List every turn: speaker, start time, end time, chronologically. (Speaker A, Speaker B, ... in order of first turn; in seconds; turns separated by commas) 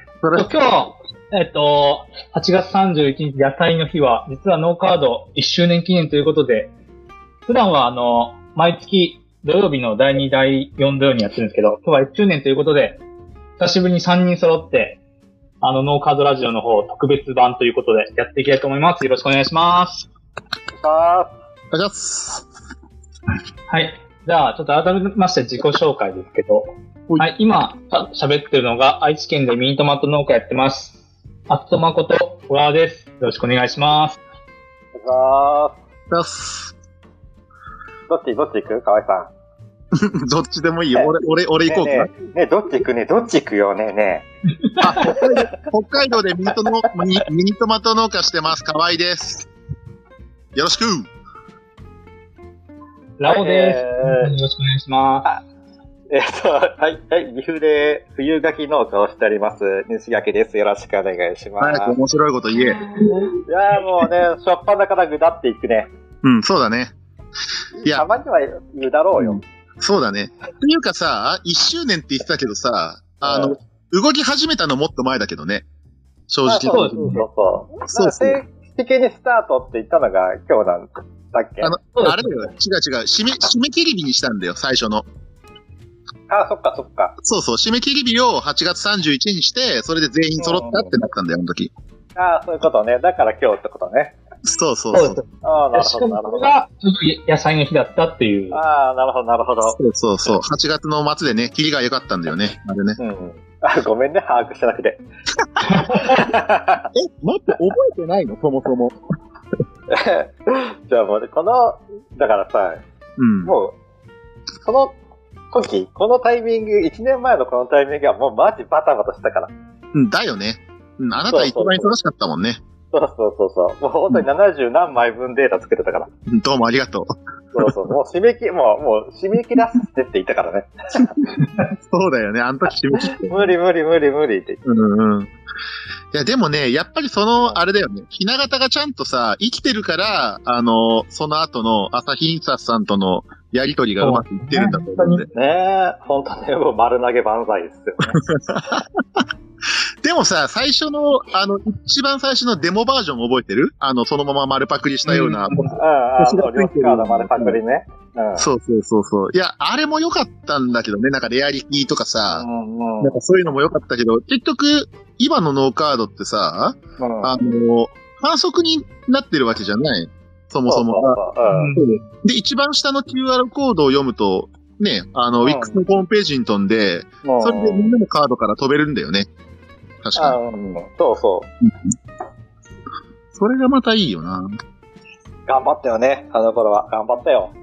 Speaker A: 0.2-0.5, Speaker B: 0.3-6.7, Speaker B: 7.5-13.0, Speaker B: 13.6-15.0, Speaker B: 15.6-20.1, Speaker C: 20.8-21.3, Speaker A: 21.7-22.5, Speaker B: 23.7-31.0, Speaker B: 31.5-34.2, Speaker C: 35.0-35.8, Speaker A: 36.1-36.7, Speaker C: 38.1-39.3, Speaker A: 39.9-42.1, Speaker C: 41.7-44.3, Speaker A: 44.8-49.5, Speaker C: 45.0-45.5, Speaker A: 50.5-51.1, Speaker B: 53.2-55.3, Speaker C: 53.2-54.3, Speaker C: 56.1-62.0, Speaker A: 61.6-62.8, Speaker C: 63.5-65.9, Speaker A: 66.2-66.9, Speaker C: 67.8-69.4, Speaker A: 69.2-75.7, Speaker C: 73.2-73.5, Speaker A: 76.3-77.2, Speaker C: 76.4-81.7, Speaker B: 76.7-77.2, Speaker A: 77.9-78.4, Speaker A: 81.6-85.0, Speaker B: 82.0-82.5, Speaker C: 86.3-87.2, Speaker A: 87.2-91.7, Speaker C: 90.4-90.9, Speaker C: 92.2-94.2, Speaker A: 94.4-95.2, Speaker B: 94.9-98.6, Speaker C: 95.4-96.5, Speaker C: 98.5-99.8, Speaker A: 99.6-103.0, Speaker C: 103.0-105.0, Speaker C: 105.8-106.9, Speaker A: 106.9-109.0, Speaker C: 109.9-112.8, Speaker A: 113.2-113.5, Speaker C: 113.4-113.8, Speaker C: 114.6-115.0, Speaker C: 115.5-119.5, Speaker A: 119.9-122.6, Speaker C: 121.3-121.9, Speaker C: 122.9-126.1, Speaker A: 126.3-127.7, Speaker C: 127.5-131.2, Speaker A: 131.6-133.6, Speaker C: 133.1-134.6, Speaker A: 134.7-135.3, Speaker A: 136.1-145.3, Speaker B: 144.0-145.3, Speaker C: 145.3-148.2, Speaker A: 148.3-148.8, Speaker A: 150.0-157.6, Speaker B: 155.1-155.7, Speaker C: 155.7-158.5, Speaker A: 158.4-162.5, Speaker C: 162.3-163.2, Speaker A: 163.0-171.2, Speaker C: 167.0-167.4, Speaker C: 170.7-171.8, Speaker B: 171.6-171.8, Speaker A: 171.8-179.3, Speaker C: 175.4-175.8, Speaker C: 177.2-177.9, Speaker A: 180.0-180.4, Speaker C: 180.2-181.5, Speaker A: 183.3-184.5, Speaker C: 185.5-187.5